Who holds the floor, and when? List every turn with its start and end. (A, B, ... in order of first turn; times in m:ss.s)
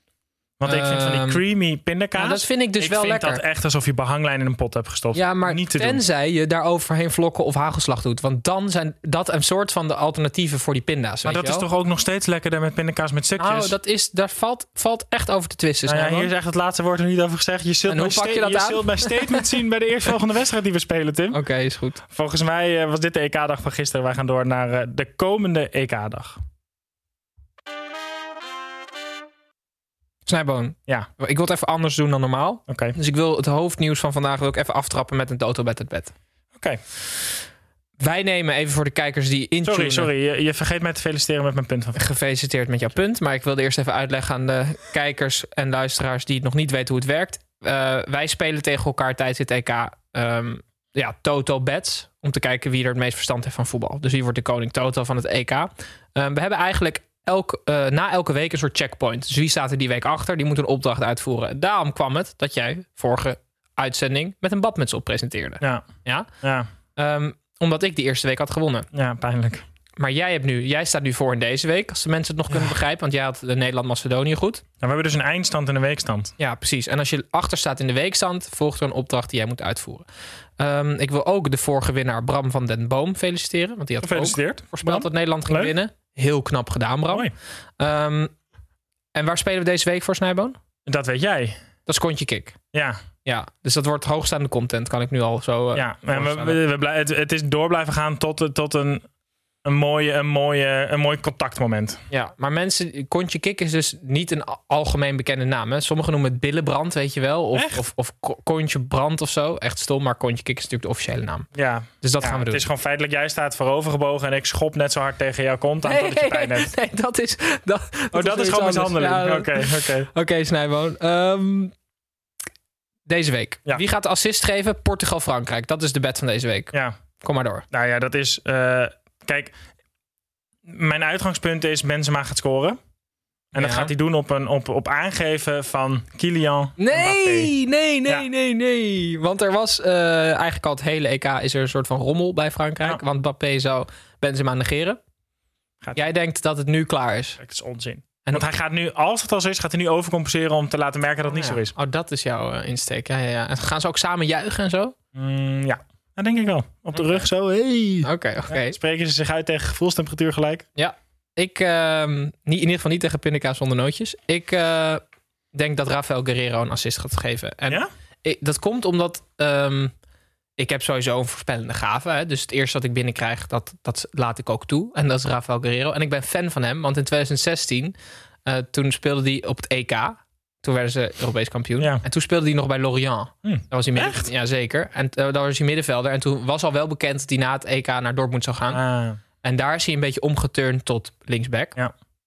0:00.6-0:06.0 A
0:00.6-0:01.4 B
0:02.1-0:03.4 B
0:05.1-0:11.6 B
0:11.2-0:13.8 A
0:13.4-0:16.3 B
0:15.8-0:21.4 A
0:17.9-0:19.5 B
0:21.3-0:22.0 B
0:22.1-0:26.4 A
0:30.2-0:36.1 B
0:32.7-0:32.9 A
0:38.0-0:40.1 B
0:39.6-0:42.0 A
0:41.9-1:06.3 B
1:05.6-1:05.9 A
1:07.0-1:08.9 B
1:08.9-1:09.6 A
1:10.0-1:14.6 B
1:14.8-1:16.3 A
1:16.4-1:20.0 B
1:20.6-1:27.3 B
1:24.0-1:25.7 A
1:27.8-1:28.3 B
1:29.1-1:30.6 B
1:30.8-1:31.6 A
1:31.8-1:32.5 B
1:32.7-1:33.0 A
1:33.2-1:36.6 B
1:35.7-1:39.0 A
1:39.6-1:42.0 A
1:42.1-1:51.5 B
1:47.5-1:47.8 A
1:51.5-1:56.7 A
1:52.0-1:52.6 B
1:55.8-2:01.7 B
1:58.1-2:00.1 A
2:03.1-2:07.6 B
2:07.7-2:09.5 A
2:10.7-2:12.8 A
2:13.5-2:17.5 A
2:13.6-2:13.9 B
2:16.8-2:25.0 B
2:25.9-2:27.4 B
2:27.4-2:31.7 A
2:31.2-2:34.9 B
2:35.1-2:40.7 A
2:36.9-2:37.3 B
2:38.0-2:38.7 B
2:40.8-2:49.9 B
2:50.6-2:57.9 B
2:58.4-3:08.8 B
3:03.4-3:04.3 A
3:08.7-3:09.2 A
3:09.4-3:11.8 B